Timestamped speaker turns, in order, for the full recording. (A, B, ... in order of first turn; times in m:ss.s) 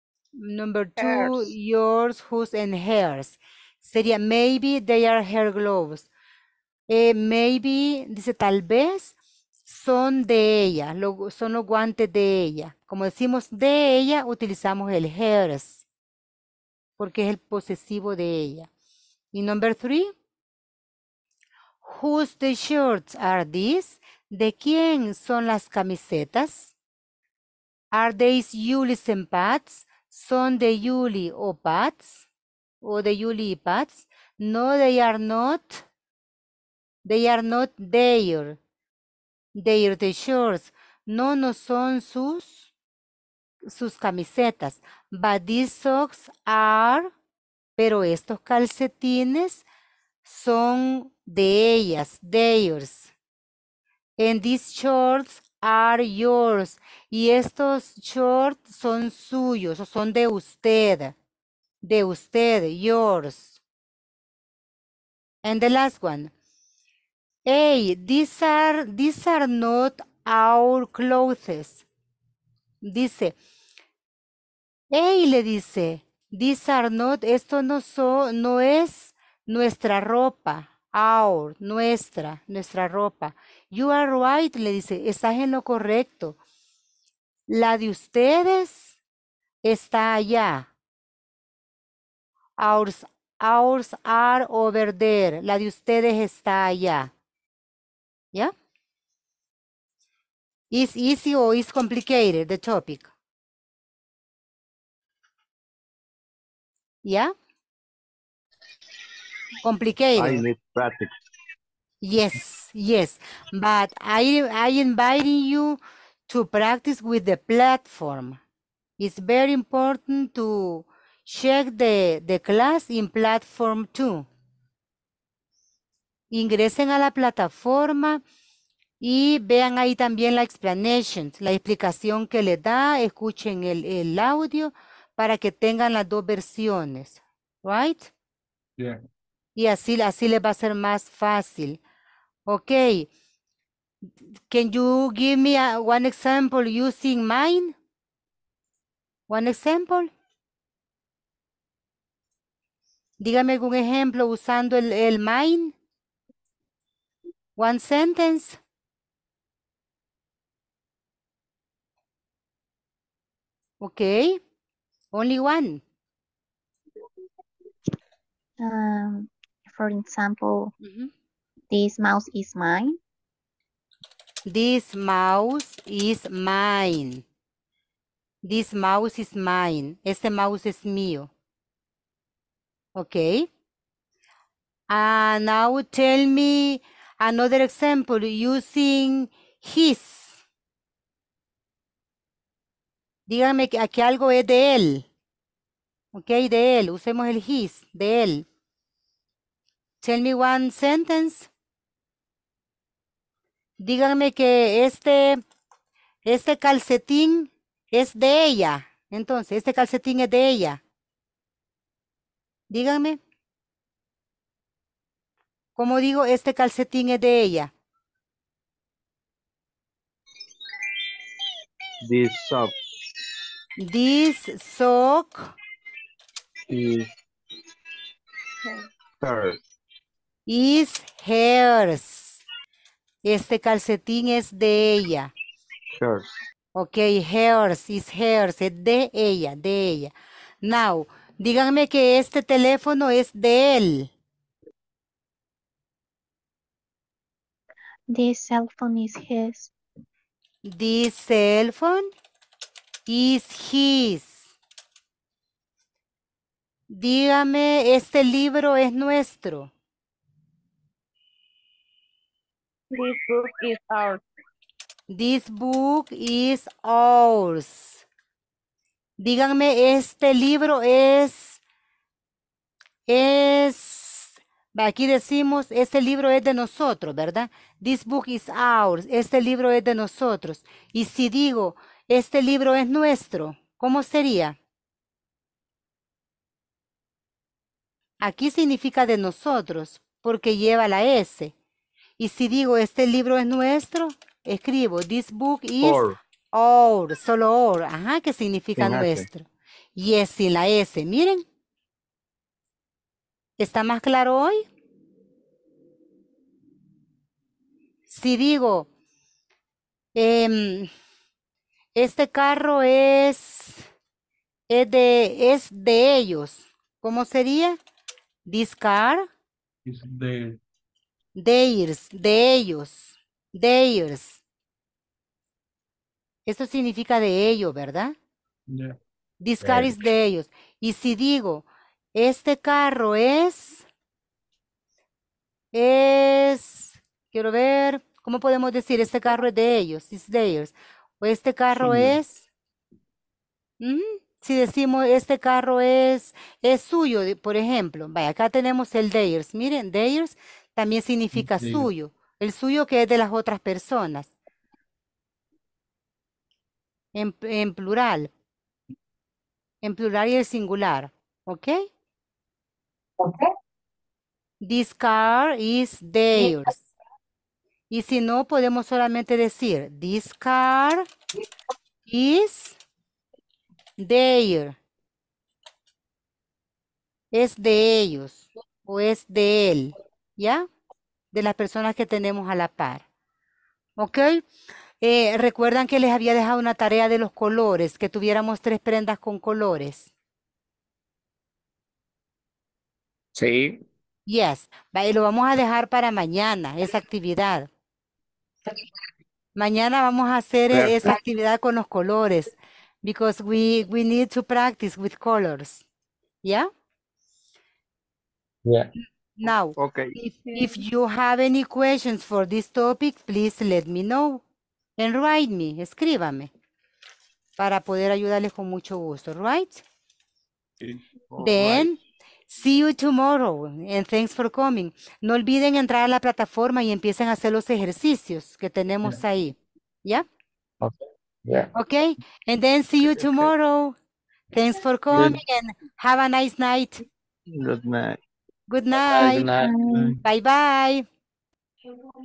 0:00.4-0:06.1 A
0:01.0-0:01.5 B
0:06.9-0:15.8 A
0:17.0-0:18.7 A
0:19.3-0:20.1 A
0:21.8-0:26.7 A
0:27.9-0:32.3 A
0:32.8-0:35.8 A
0:37.0-0:38.6 A
0:39.5-0:42.7 A
0:43.6-0:47.1 A
0:47.8-0:49.6 A
0:50.2-0:53.1 A
0:54.2-1:01.1 A
1:01.8-1:03.6 A
1:05.4-1:06.3 A
1:07.4-1:11.8 A
1:12.8-1:13.4 A
1:14.9-1:26.4 A
1:27.5-1:29.0 A
1:29.6-1:30.7 A
1:32.6-1:37.1 A
1:40.7-1:43.1 A
1:47.0-1:47.3 A
1:49.6-1:50.4 A
1:50.1-1:51.2 C
1:52.0-1:58.4 A
1:59.0-2:04.2 A
2:06.3-2:08.2 A
2:09.0-2:18.1 A
2:19.6-2:21.8 A
2:22.5-2:23.1 A
2:24.5-2:27.7 A
2:29.3-2:30.1 A
2:33.2-2:35.7 A
2:37.6-2:38.6 A
2:43.8-2:44.4 A
2:45.1-2:45.8 A
2:48.6-2:50.7 D
2:50.8-2:51.1 A
2:51.7-2:53.0 D
2:54.5-2:57.2 A
2:58.4-3:01.3 A
3:02.9-3:03.5 A
3:04.9-3:10.4 A
3:13.3-3:15.0 A
3:16.1-3:18.4 A
3:20.0-3:21.5 A
3:23.8-3:25.4 A
3:26.2-3:30.8 A
3:32.7-3:33.2 A
3:35.8-3:37.7 A
3:42.0-3:42.7 C
3:43.8-3:45.5 A
3:46.7-3:47.1 C
3:49.2-3:49.6 C
3:50.5-3:52.4 A
3:53.2-3:55.3 A
3:55.9-3:56.3 C
3:56.7-4:04.1 A
4:08.1-4:09.7 D
4:10.6-4:12.1 A
4:13.1-4:14.5 A
4:16.9-4:19.7 A
4:22.9-4:24.2 B
4:25.1-4:28.0 A
4:29.2-4:31.6 A
4:33.1-4:44.6 A
4:48.2-4:51.5 A
4:52.2-5:01.4 A
4:55.8-4:56.2 C
4:58.8-4:59.3 C
5:03.6-5:04.6 A
5:08.1-5:08.9 A
5:10.1-5:10.9 A
5:11.9-5:13.8 A
5:14.7-5:17.8 A
5:18.4-5:19.3 A
5:19.8-5:20.6 E
5:21.4-5:24.4 A
5:26.4-5:28.2 A
5:28.7-5:29.0 E
5:29.4-5:33.8 A
5:29.6-5:29.9 E
5:35.7-5:42.5 A
5:43.8-5:54.3 A
5:51.3-5:51.9 E
5:57.1-5:58.3 A
5:59.8-6:01.9 A
6:04.6-6:06.8 A
6:07.9-6:11.1 A
6:12.1-6:12.8 A
6:14.0-6:14.8 A
6:17.3-6:20.7 A
6:21.3-6:23.0 A
6:24.0-6:24.4 A
6:25.0-6:30.1 A
6:33.3-6:33.8 F
6:34.3-6:37.7 A
6:39.5-6:45.8 A
6:40.7-6:41.2 F
6:46.4-6:46.7 A
6:48.6-6:48.9 F
6:49.4-6:54.4 A
6:49.8-6:50.1 C
6:50.4-6:50.7 B
6:55.0-6:56.5 A
6:57.6-6:59.8 A
7:01.3-7:01.9 C
7:01.4-7:02.0 A
7:02.5-7:10.3 A
7:10.8-7:11.7 F
7:11.7-7:14.0 A
7:13.1-7:13.5 C
7:14.5-7:17.0 A
7:17.5-7:18.2 C
7:18.7-7:19.5 A
7:19.1-7:19.7 F
7:19.6-7:20.2 D
7:19.9-7:20.2 E
7:20.2-7:21.0 A